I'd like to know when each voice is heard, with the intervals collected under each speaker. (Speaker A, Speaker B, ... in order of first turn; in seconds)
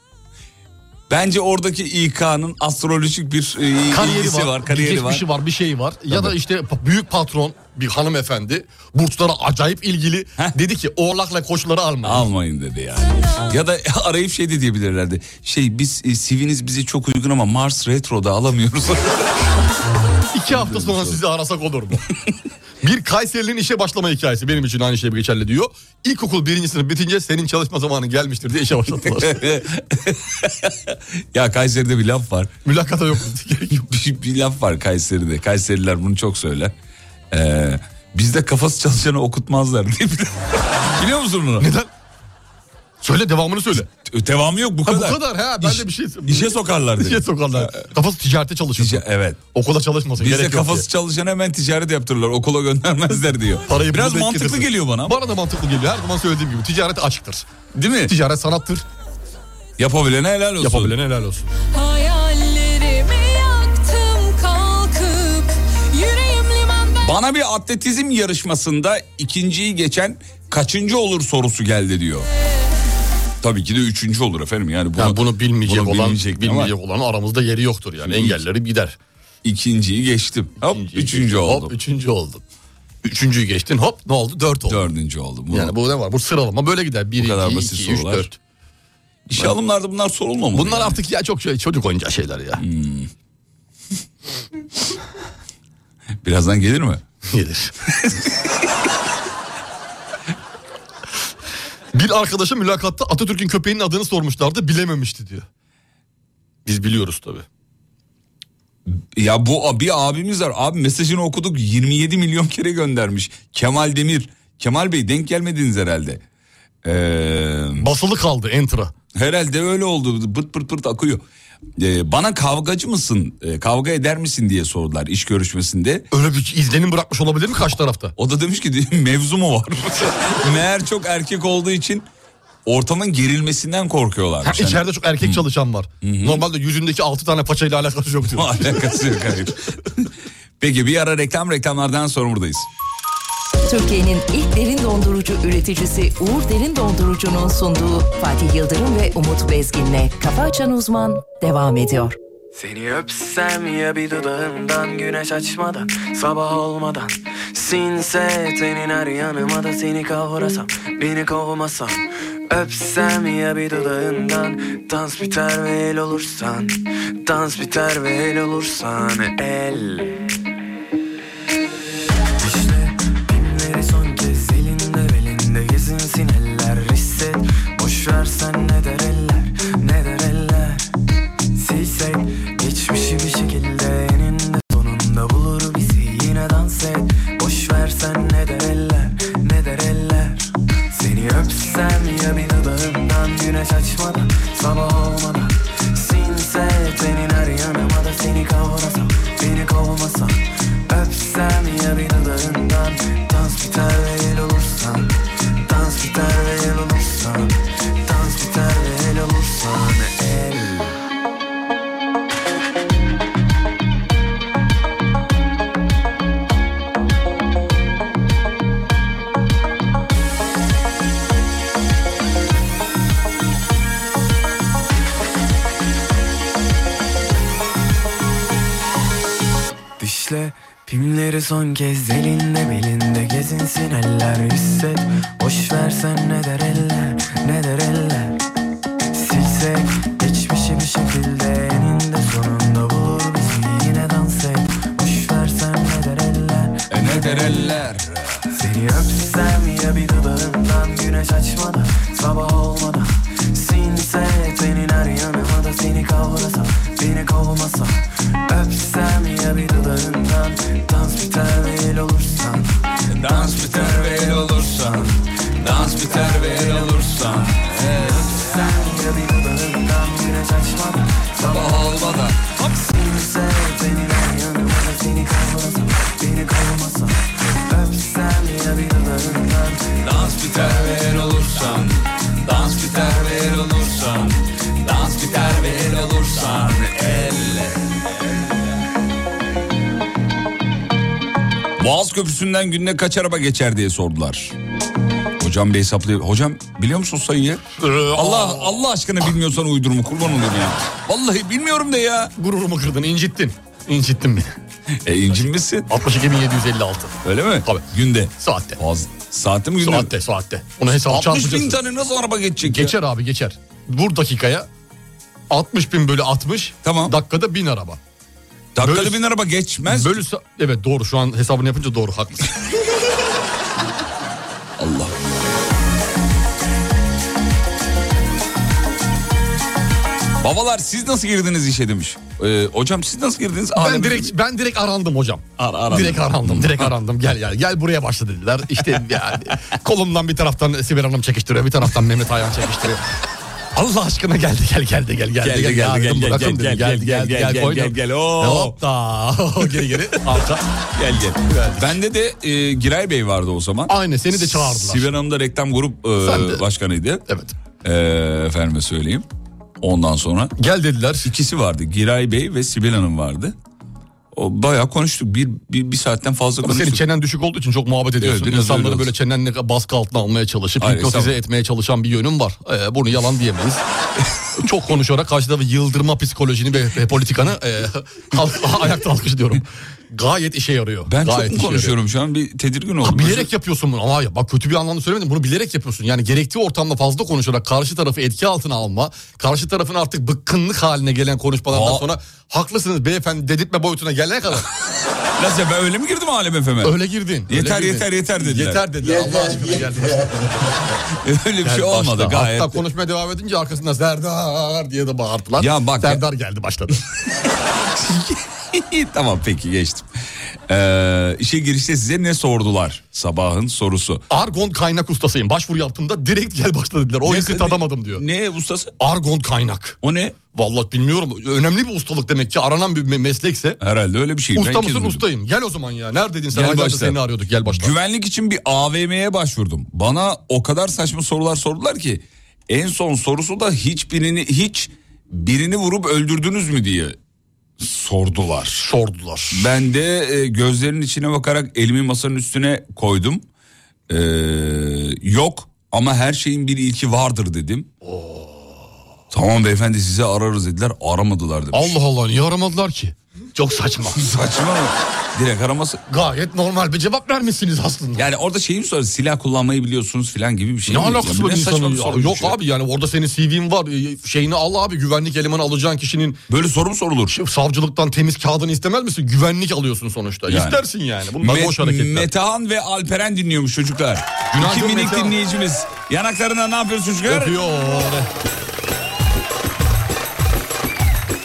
Speaker A: 1.1-5.2, 12.0-19.3, 20.5-21.1, 29.2-32.5, 33.8-36.7, 37.3-41.7, 44.0-47.8, 48.8-49.4, 50.2-55.2, 57.7-58.1, 59.8-61.0, 67.0-72.3, 73.4-76.7, 78.1-78.3, 79.4-81.7, 84.7-85.7, 87.2-88.3, 89.3-91.0, 92.6-93.1, 96.2-97.0, 98.0-98.3, 108.9-116.2, 116.8-117.9, 119.1-121.2, 121.8-126.1, 128.2-132.1, 132.7-135.4, 136.0-136.4, 138.3-142.7, 246.9-248.4, 263.1-268.5, 271.5-272.8, 280.0-288.3, 291.8-294.5, 295.4-302.3, 305.0-305.9, 307.2-310.1, 311.0-312.9, 316.8-317.1, 318.7-320.2, 324.8-325.5, 330.4-334.3, 335.6-336.9, 345.4-348.7, 350.9-357.2, 357.8-359.2, 359.8-360.5, 361.2-363.5, 364.3-367.0, 368.2-369.1, 370.8-371.3, 381.1-383.5, 391.7-392.1, 395.4-396.9, 397.5-398.8, 401.2-402.8, 405.6-406.2, 407.6-410.1, 410.7-414.2, 417.2-418.9, 420.0-420.4, 423.8-425.2, 426.5-437.2, 437.8-438.8, 439.5-443.4, 444.1-447.9, 449.3-451.9, 454.1-456.0, 458.2-462.6, 466.5-467.3, 470.5-470.8, 471.4-477.6
Speaker B: 3.9-12.3, 20.3-22.0, 22.8-29.4, 32.6-33.9, 41.6-41.9, 43.0-43.9, 44.9-50.9, 53.6-57.5, 58.0-58.9, 60.6-61.5, 75.0-79.0, 80.6-82.4, 83.0-84.8, 85.5-88.3, 90.5-92.6, 97.3-97.7, 101.9-105.5, 106.7-107.5, 117.8-118.9, 126.1-128.1, 134.4-138.8, 297.8-298.8, 302.4-304.6, 305.9-307.9, 308.4-308.8, 309.8-311.8, 312.6-314.7, 315.5-318.0, 318.8-319.2, 319.9-322.5, 333.8-343.0, 343.7-350.6, 351.4-351.9, 353.9-355.1, 356.2-356.6, 357.3-357.6, 360.6-361.3, 366.6-373.8, 374.5-381.9, 383.0-394.7, 396.8-400.3, 401.6-407.0, 414.3-418.2, 419.0-420.0, 420.5-423.8, 424.5-427.9, 438.8-439.7, 448.0-448.9, 451.7-454.2, 456.1-458.2, 460.9-466.4, 467.3-472.3, 474.5-475.3, 477.2-478.3
Speaker C: 13.1-13.5, 61.7-67.1, 72.3-72.7
Speaker D: 143.7-152.2
Speaker E: 152.5-170.2, 172.4-180.9, 181.5-210.9, 230.0-238.4, 239.1-247.8, 248.5-265.1, 265.6-267.1, 267.7-281.2